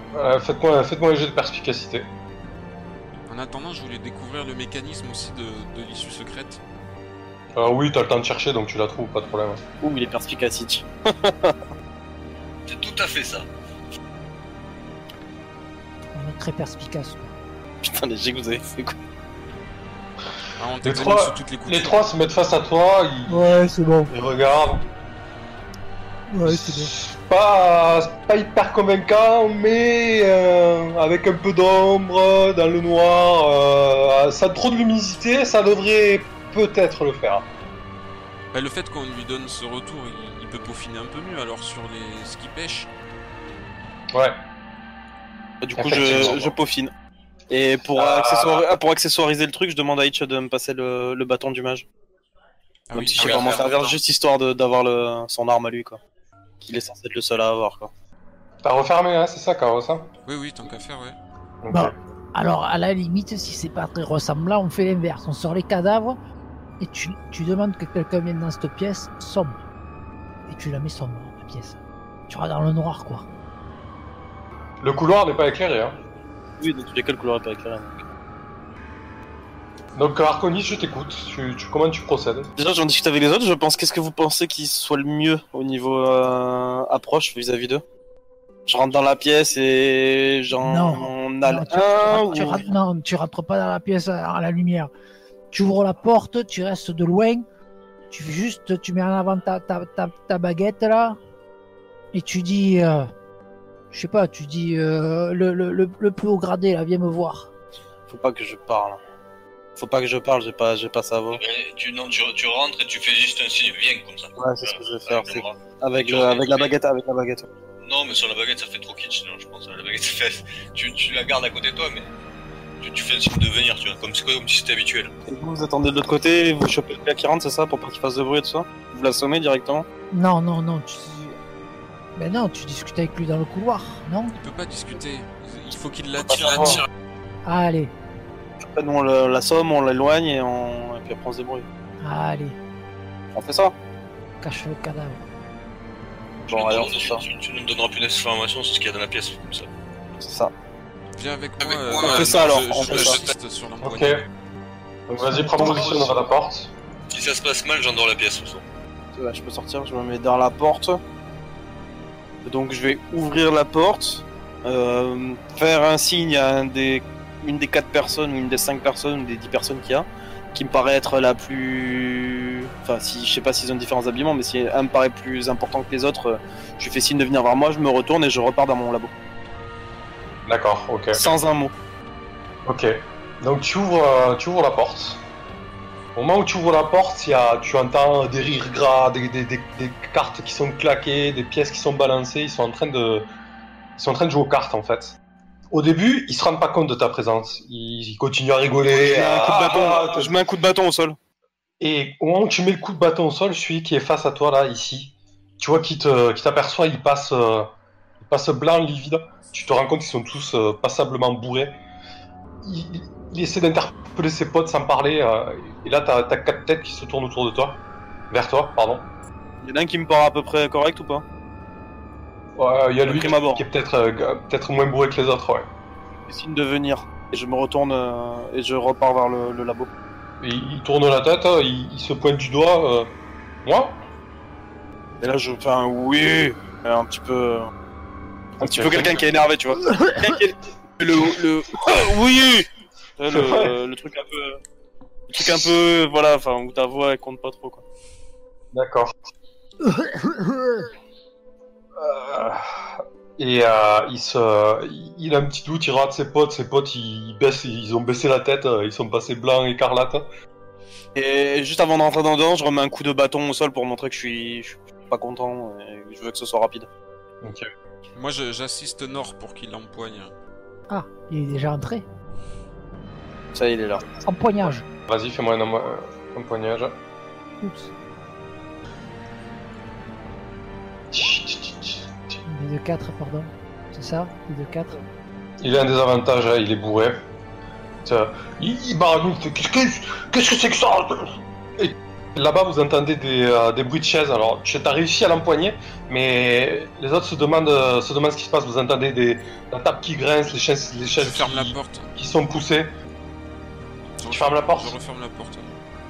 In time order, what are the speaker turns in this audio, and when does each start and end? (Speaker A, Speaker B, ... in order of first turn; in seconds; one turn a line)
Speaker A: 0.1-2.1
Speaker B: 3.3-6.6
Speaker A: 7.5-9.6
Speaker C: 9.8-11.6
Speaker D: 12.7-13.5
Speaker E: 16.1-17.3
Speaker C: 17.8-18.9
Speaker B: 20.6-21.9
Speaker A: 20.8-24.8
Speaker E: 23.3-24.1
Speaker E: 26.3-26.9
Speaker A: 26.4-37.5
Speaker B: 38.5-42.9
Speaker C: 45.6-46.9
Speaker A: 45.7-46.5
Speaker C: 47.5-51.9
Speaker A: 48.0-48.6
Speaker B: 52.9-53.7
Speaker C: 52.9-56.0
Speaker A: 53.2-53.6
Speaker D: 53.2-53.9
Speaker C: 56.6-57.9
Speaker A: 58.6-60.1
Speaker B: 60.2-61.2
Speaker A: 61.6-61.9
Speaker E: 61.7-66.2
Speaker E: 66.8-69.5
Speaker E: 70.5-71.8
Speaker E: 72.3-73.3
Speaker A: 74.8-76.0
Speaker C: 76.6-78.0
Speaker A: 79.9-82.5
Speaker C: 82.5-87.8
Speaker C: 88.7-92.7
Speaker E: 90.6-94.9
Speaker E: 95.5-97.4
Speaker E: 98.1-101.2
Speaker E: 102.1-103.1
Speaker E: 103.9-107.5
Speaker C: 108.1-109.0
Speaker C: 109.8-111.4
Speaker D: 111.3-116.7
Speaker C: 114.4-117.5
Speaker D: 117.8-122.1
Speaker D: 122.8-125.1
Speaker C: 125.3-129.8
Speaker E: 130.1-131.3
Speaker E: 132.2-134.3
Speaker B: 134.3-136.9
Speaker C: 136.3-136.8
Speaker E: 137.4-137.9
Speaker C: 138.6-141.7
Speaker E: 142.0-142.6
Speaker C: 143.3-143.7
Speaker E: 144.4-145.2
Speaker D: 146.4-149.7
Speaker C: 146.5-147.2
Speaker C: 150.2-150.5
Speaker B: 151.2-154.3
Speaker D: 151.6-153.2
Speaker C: 151.9-153.2
Speaker A: 153.8-154.2
Speaker A: 155.1-156.7
Speaker E: 155.2-155.8
Speaker D: 157.1-158.6
Speaker C: 159.1-161.0
Speaker C: 162.4-179.1
Speaker A: 180.4-181.2
Speaker C: 181.1-181.7
Speaker A: 182.7-185.2
Speaker A: 186.1-193.3
Speaker A: 194.0-195.2
Speaker A: 195.7-200.3
Speaker C: 198.9-201.2
Speaker A: 201.8-211.8
Speaker A: 212.6-219.1
Speaker C: 219.6-221.2
Speaker A: 222.6-225.7
Speaker C: 223.0-223.6
Speaker C: 226.3-229.9
Speaker A: 230.4-233.1
Speaker A: 233.6-234.0
Speaker C: 235.2-237.7
Speaker A: 238.6-239.2
Speaker C: 238.6-244.6
Speaker A: 243.3-243.7
Speaker C: 245.3-247.8
Speaker A: 245.4-245.7
Speaker A: 248.7-249.1
Speaker E: 249.8-250.9
Speaker A: 252.0-260.2
Speaker C: 261.1-266.9
Speaker A: 267.4-267.7
Speaker B: 268.1-270.3
Speaker E: 270.9-272.1
Speaker C: 273.5-274.0
Speaker E: 274.1-274.8
Speaker A: 275.1-276.9
Speaker E: 277.6-277.9
Speaker A: 281.1-282.3
Speaker E: 282.4-285.0
Speaker A: 285.6-287.2
Speaker A: 288.0-302.9
Speaker B: 301.2-302.1
Speaker B: 304.2-305.7
Speaker A: 304.3-304.9